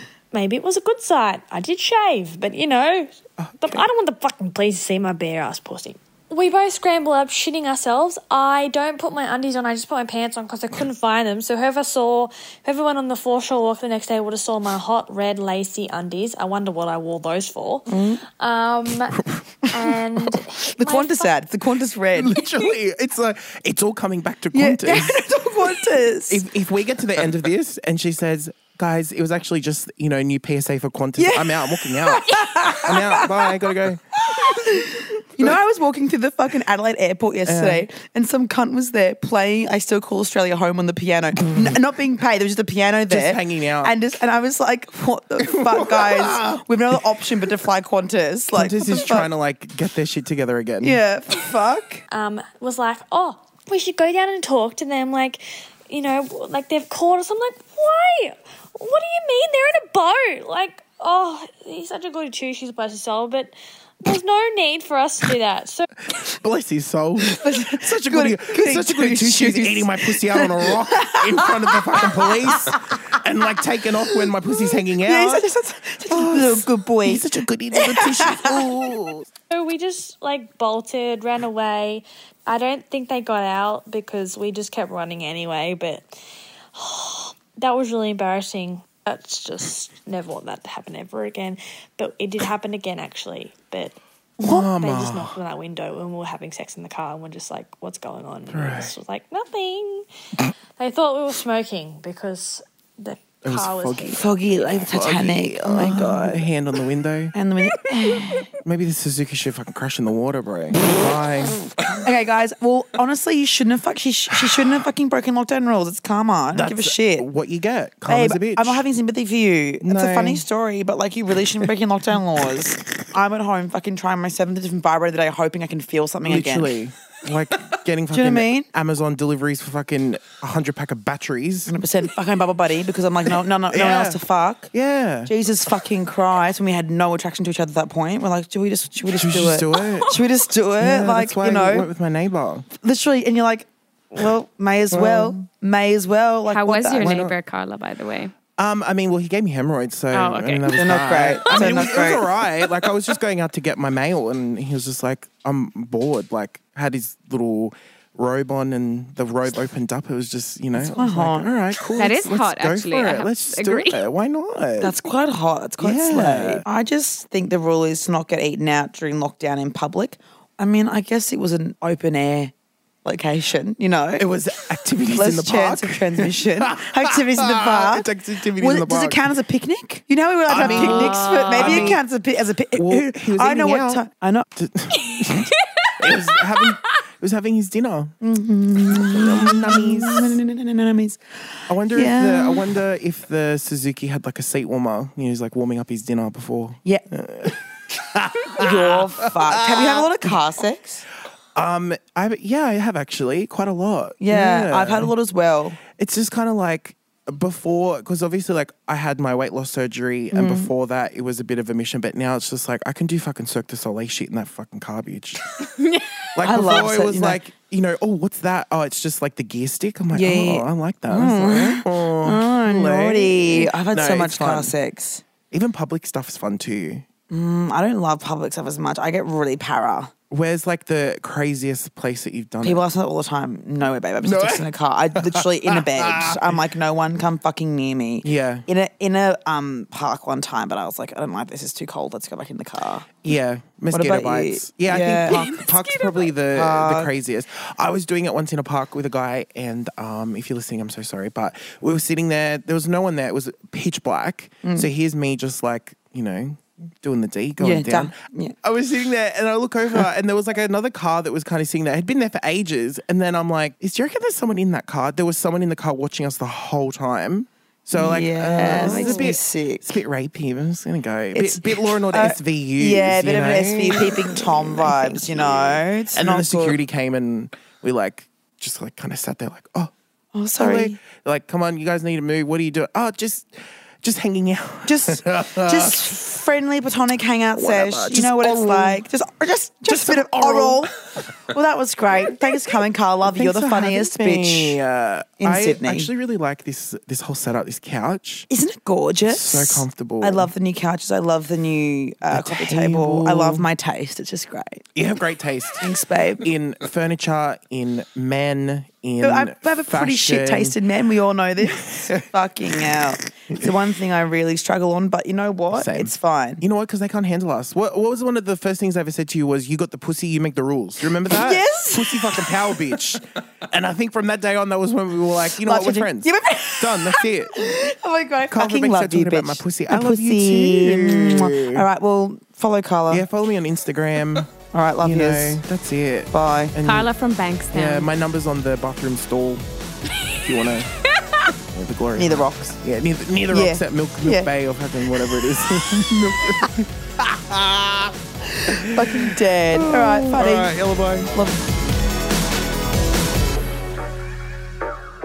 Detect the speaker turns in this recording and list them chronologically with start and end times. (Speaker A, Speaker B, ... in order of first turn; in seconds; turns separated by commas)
Speaker A: 0.3-21.4, Speaker B: 3.4-3.9, Speaker C: 17.9-18.2, Speaker C: 20.7-22.4, Speaker B: 22.1-34.1, Speaker C: 24.5-26.4, Speaker C: 31.2-33.8, Speaker C: 34.3-49.3, Speaker B: 37.5-37.9, Speaker B: 43.1-43.9, Speaker B: 45.4-47.3, Speaker B: 48.6-51.0, Speaker C: 50.8-52.0, Speaker A: 52.1-65.9, Speaker B: 66.1-75.5, Speaker C: 67.3-72.8, Speaker C: 74.9-78.7, Speaker B: 76.1-79.3, Speaker A: 79.5-86.1, Speaker A: 86.7-100.1, Speaker B: 94.4-95.4, Speaker B: 98.5-98.9, Speaker A: 100.8-104.2, Speaker B: 103.5-107.3, Speaker C: 104.1-106.5, Speaker C: 107.3-108.5, Speaker B: 108.6-111.7, Speaker C: 112.0-117.3, Speaker B: 116.5-118.8, Speaker C: 118.1-126.8, Speaker B: 119.8-120.5, Speaker B: 126.2-131.7, Speaker C: 128.1-128.7, Speaker C: 131.7-134.7, Speaker B: 133.7-135.3, Speaker C: 135.3-141.9, Speaker B: 139.1-140.2, Speaker B: 140.8-142.7, Speaker C: 142.7-147.2, Speaker B: 144.9-145.4, Speaker D: 146.5-148.3, Speaker B: 147.0-147.3, Speaker B: 148.6-164.9, Speaker D: 150.1-150.7, Speaker C: 150.7-152.3, Speaker D: 151.4-151.8, Speaker C: 160.8-162.0, Speaker D: 162.0-164.0, Speaker C: 164.8-172.5, Speaker B: 165.8-166.7, Speaker C: 173.1-174.3, Speaker B: 174.2-179.2, Speaker C: 175.1-184.5, Speaker B: 180.5-182.0, Speaker B: 182.8-188.2, Speaker C: 188.2-192.7, Speaker B: 188.9-190.4, Speaker B: 191.7-200.3, Speaker C: 198.6-201.1, Speaker B: 201.6-205.1, Speaker C: 204.2-205.8, Speaker B: 206.0-215.6, Speaker C: 210.3-210.7, Speaker B: 216.3-224.7, Speaker C: 216.4-217.4, Speaker C: 220.1-225.2, Speaker B: 225.5-227.1, Speaker C: 227.3-230.1, Speaker B: 230.3-232.8, Speaker C: 232.6-243.1, Speaker B: 234.2-236.6, Speaker B: 238.2-238.7, Speaker B: 243.2-279.9, Speaker C: 243.9-245.6, Speaker C: 246.5-247.1, Speaker C: 254.6-254.9, Speaker C: 257.6-258.6, Speaker C: 267.9-270.0, Speaker C: 271.3-276.8, Speaker C: 280.3-281.0, Speaker B: 280.6-286.1, Speaker C: 284.9-290.9, Speaker B: 287.6-289.0, Speaker B: 289.9-290.9, Speaker C: 291.5-294.8, Speaker B: 292.2-298.5, Speaker C: 295.4-296.1, Speaker C: 298.5-304.8, Speaker B: 299.2-300.5, Speaker B: 302.3-303.7, Speaker B: 304.9-305.9, Speaker C: 305.8-306.5, Speaker B: 306.4-310.8, Speaker C: 309.2-316.6, Speaker B: 311.7-312.1, Speaker B: 315.7-327.6, Speaker C: 321.2-323.0, Speaker C: 325.6-333.2, Speaker B: 328.5-331.9, Speaker B: 333.1-334.5, Speaker C: 334.7-335.6, Speaker B: 335.0-337.1, Speaker C: 336.3-336.7, Speaker D: 336.9-338.1, Speaker B: 337.7-339.6, Speaker B: 340.4-340.9, Speaker B: 341.6-348.1, Speaker C: 342.2-342.8, Speaker C: 343.5-344.5, Speaker C: 348.5-350.8, Speaker B: 348.7-351.3, Speaker C: 351.3-351.6